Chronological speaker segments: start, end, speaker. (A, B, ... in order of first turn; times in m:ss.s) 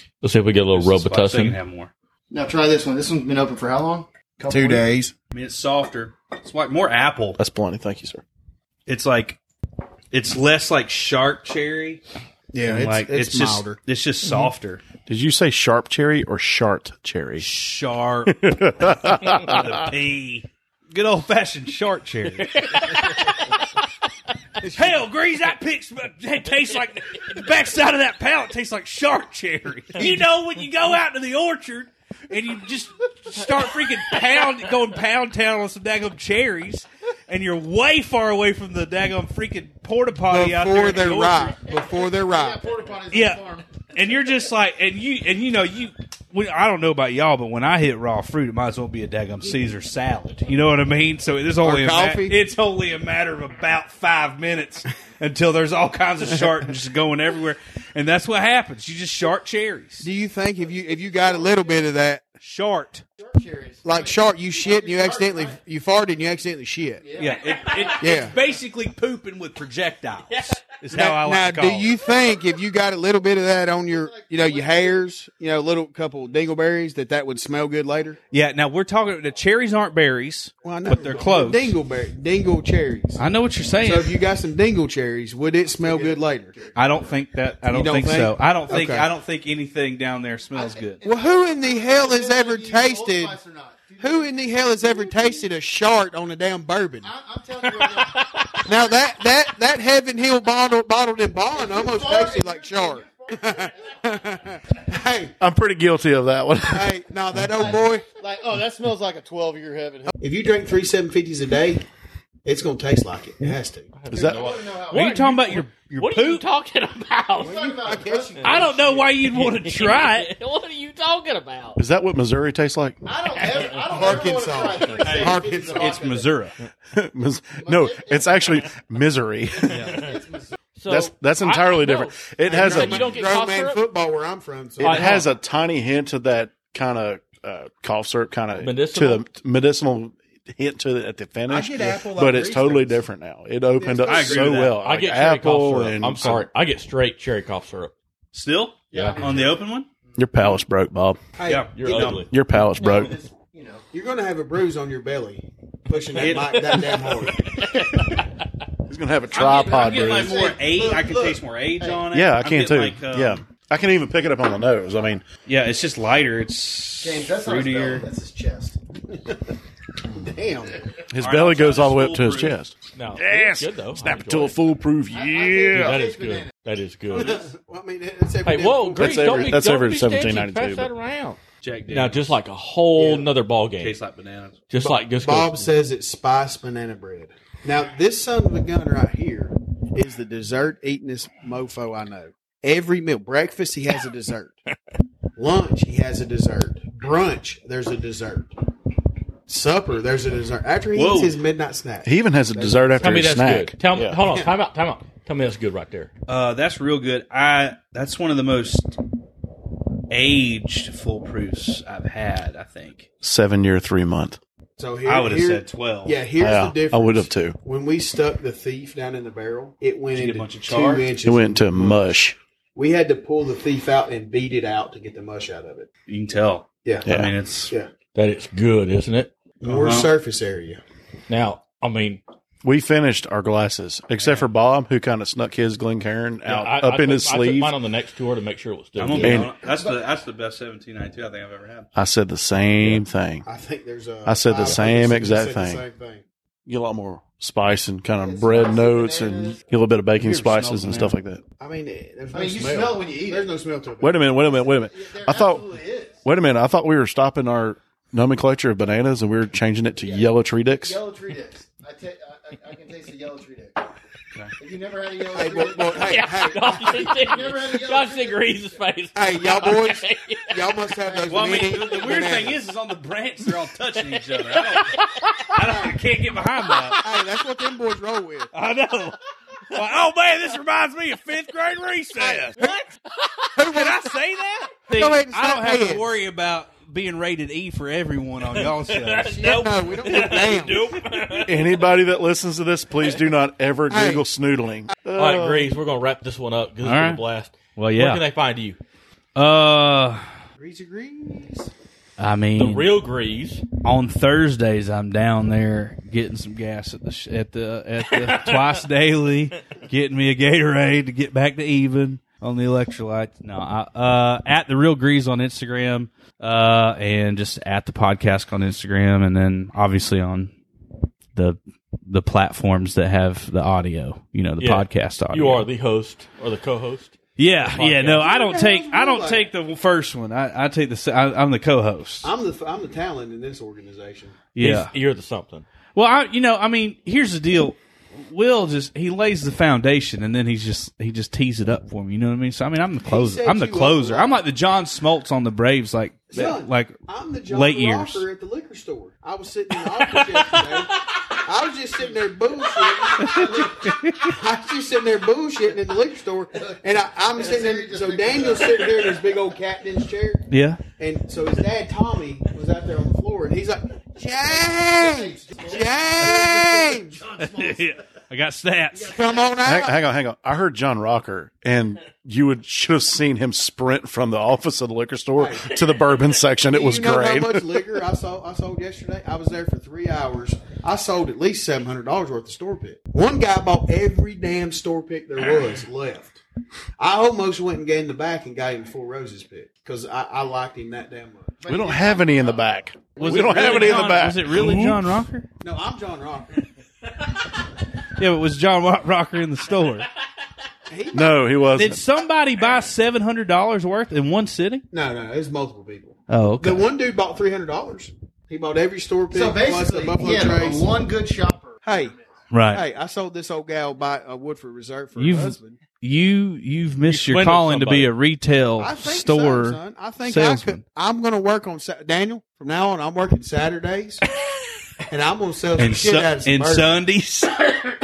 0:00.2-0:01.6 A
0:00.7-0:01.9 B
0:02.3-0:04.9 C
0:04.5-0:05.1 D
0:05.3-0:07.4 B
0:07.4-0:08.2 E
0:08.9-0:09.4 B
0:10.1-0:12.0 B
0:12.5-0:13.8 D
0:12.6-0:14.8 B
0:15.0-0:17.5 E
0:17.4-0:23.3 B
0:18.2-0:19.7 E
0:22.6-0:23.4 A
0:24.6-0:25.0 D
0:24.6-0:41.6 B
0:40.3-0:42.6 D
0:41.8-0:43.7 C
0:43.1-1:00.1 B
0:51.6-0:52.4 D
1:00.0-1:02.2 D
1:00.8-1:01.8 C
1:02.4-1:03.0 B
1:03.2-1:05.6 C
1:03.8-1:07.0 D
1:07.0-1:08.2 C
1:07.2-1:11.9 B
1:08.0-1:08.4 D
1:10.9-1:18.2 D
1:13.8-1:15.0 C
1:18.3-1:21.7 B
1:20.6-1:26.6 D
1:23.2-1:24.1 B
1:25.8-1:26.8 C
1:26.7-1:31.0 B
1:27.7-1:29.1 D
1:30.5-1:35.4 C
1:31.0-1:33.4 D
1:34.0-1:37.1 D
1:37.0-1:38.7 C
1:38.6-1:45.4 D
1:41.5-1:44.4 C
1:45.4-1:46.9 E
1:46.7-1:48.1 D
1:47.6-1:50.1 C
1:50.2-1:51.8 D
1:52.4-1:53.9 D
1:54.0-1:57.8 A
1:54.1-1:54.5 E
1:54.1-1:55.5 C
1:54.9-1:56.4 B
1:57.4-1:59.1 C
1:57.4-1:58.7 D
1:58.4-2:00.3 B
1:59.2-2:01.8 A
2:01.8-2:03.0 E
2:03.0-2:06.3 C
2:03.6-2:03.8 A
2:03.7-2:06.0 D
2:05.0-2:06.5 B
2:06.9-2:10.0 E
2:07.6-2:08.7 C
2:09.6-2:10.6 C
2:09.7-2:10.0 B
2:10.8-2:13.8 A
2:10.9-2:13.2 E
2:12.5-2:15.2 D
2:14.8-2:15.2 A
2:14.8-2:26.4 E
2:18.6-2:19.2 A
2:21.5-2:23.0 D
2:23.8-2:24.6 D
2:24.0-2:24.8 B
2:24.8-2:27.9 A
2:28.3-2:29.9 B
2:28.9-2:29.6 C
2:28.9-2:29.4 A
2:30.2-2:31.2 E
2:31.4-2:32.2 D
2:31.4-2:32.2 B
2:31.8-2:32.3 A
2:32.2-2:33.1 E
2:32.6-2:33.8 C
2:33.9-2:37.6 D
2:36.2-2:36.7 B
2:36.6-2:36.8 A
2:37.6-2:38.2 A
2:38.9-2:40.4 E
2:39.3-2:43.4 B
2:39.3-2:41.2 C
2:40.7-2:41.4 D
2:42.1-2:45.2 E
2:45.4-2:48.1 B
2:47.0-2:48.8 C
2:49.1-2:49.5 D
2:50.1-2:50.9 D
2:51.1-2:56.0 E
2:51.2-2:52.6 B
2:52.9-2:54.6 A
2:55.1-2:56.5 C
2:55.7-2:57.4 A
2:57.1-2:59.5 D
2:58.4-3:04.0 A
2:59.0-3:00.9 E
3:01.6-3:02.3 B
3:03.0-3:04.6 B
3:04.7-3:05.7 A
3:04.8-3:14.6 D
3:15.4-3:18.5 D
3:19.5-3:23.1 D
3:20.9-3:21.4 B
3:22.0-3:24.2 E
3:23.0-3:26.1 A
3:24.2-3:24.5 D
3:26.3-3:29.0 B
3:30.1-3:33.1 B
3:33.2-3:34.4 E
3:34.8-3:42.2 D
3:35.0-3:36.2 B
3:36.4-3:37.6 E
3:40.1-3:41.1 B
3:41.2-3:42.4 E
3:42.8-3:45.9 D
3:46.1-3:47.7 B
3:47.0-3:47.3 E
3:48.1-3:49.3 A
3:49.6-3:50.8 D
3:49.6-3:50.1 B
3:51.3-3:52.2 A
3:52.6-3:57.8 E
3:56.4-3:59.5 A
3:59.0-4:01.9 B
3:59.1-3:59.5 E
3:59.5-4:00.0 C
4:01.9-4:03.4 E
4:03.4-4:06.2 D
4:04.2-4:05.8 E
4:06.6-4:11.4 E
4:08.2-4:09.6 C
4:10.2-4:11.1 B
4:11.6-4:14.2 D
4:12.3-4:13.4 C
4:14.0-4:15.7 E
4:14.5-4:16.2 C
4:16.2-4:21.0 E
4:20.0-4:23.8 C
4:24.6-4:26.2 C
4:25.3-4:27.2 D
4:25.9-4:30.8 A
4:27.0-4:28.4 C
4:29.1-4:32.6 D
4:31.3-4:37.0 B
4:34.3-4:35.6 A
4:37.0-4:38.5 D
4:38.5-4:39.2 B
4:39.7-4:42.6 B
4:42.2-4:42.9 D
4:43.5-4:51.5 B
4:43.6-4:44.1 D
4:44.9-4:46.2 D
4:48.5-4:51.7 A
4:49.2-4:50.9 D
4:51.4-4:55.7 E
4:53.9-4:54.2 D
4:55.1-4:58.8 A
4:56.8-4:57.2 B
4:57.8-4:58.2 B
4:59.3-5:00.2 B
5:00.6-5:01.7 D
5:02.2-5:02.9 B
5:02.6-5:03.6 A
5:03.8-5:20.5 B
5:08.3-5:08.6 A
5:21.3-5:25.6 B
5:24.6-5:28.2 A
5:27.4-5:32.3 B
5:28.0-5:29.5 D
5:32.2-5:34.4 D
5:34.5-5:34.9 B
5:34.6-5:35.6 A
5:35.9-5:48.2 B
5:43.0-5:44.4 D
5:46.3-6:07.2 D
5:50.2-5:50.6 B
5:53.1-5:54.0 C
5:53.2-5:54.4 B
5:56.6-5:59.2 C
6:00.5-6:00.8 B
6:04.6-6:08.0 C
6:07.4-6:09.2 B
6:08.9-6:09.3 C
6:09.0-6:10.0 D
6:09.6-6:17.6 E
6:15.4-6:15.8 D
6:16.7-6:26.4 D
6:27.0-6:31.6 D
6:31.6-6:32.7 C
6:31.6-6:35.0 E
6:33.2-6:35.4 B
6:33.2-6:34.2 D
6:33.6-6:33.9 A
6:34.5-6:34.8 A
6:35.6-6:36.7 D
6:38.0-6:40.1 B
6:40.9-6:41.4 D
6:41.1-6:42.0 E
6:41.8-6:44.8 B
6:44.9-6:50.9 D
6:46.3-6:46.9 B
6:49.3-6:52.3 C
6:51.8-6:52.1 D
6:52.5-6:52.8 B
6:52.7-6:55.8 D
6:55.2-7:00.8 B
6:57.1-6:58.1 A
6:58.8-7:04.2 D
7:05.1-7:06.9 D
7:05.8-7:07.9 B